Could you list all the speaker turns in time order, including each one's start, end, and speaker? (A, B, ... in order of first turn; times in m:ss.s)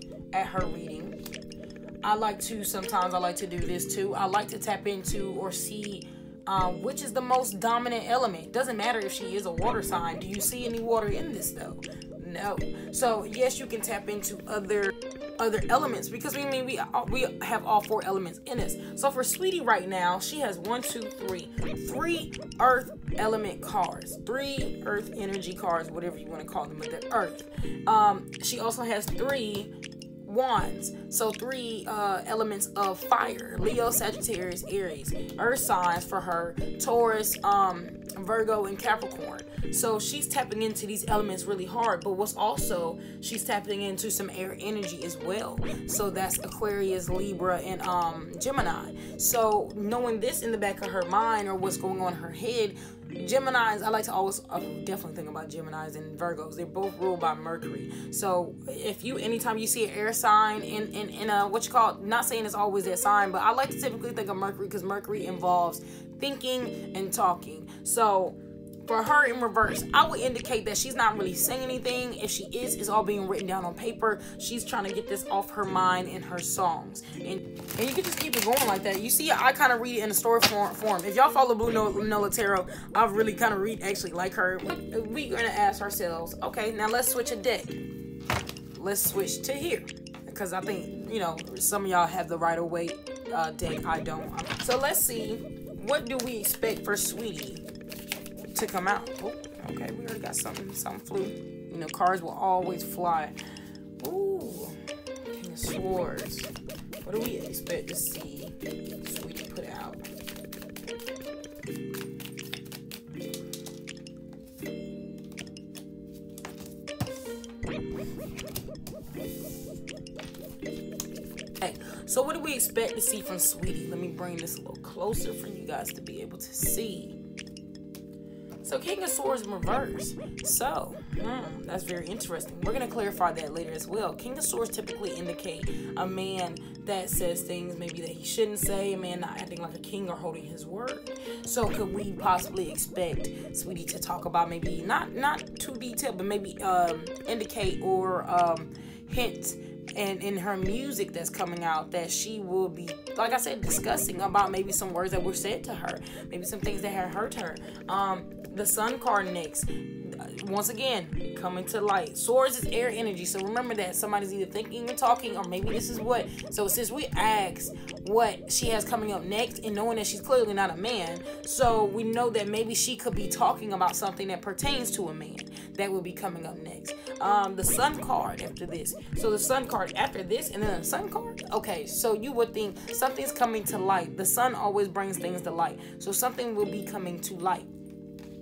0:00.3-0:01.2 A
0:02.0-0:29.7 A
0:30.2-1:27.8 A
1:28.7-1:37.6 A
1:38.4-1:43.3 A
1:44.0-1:46.5 A
1:47.0-1:50.0 A
2:01.6-2:07.2 A
2:08.6-3:07.7 A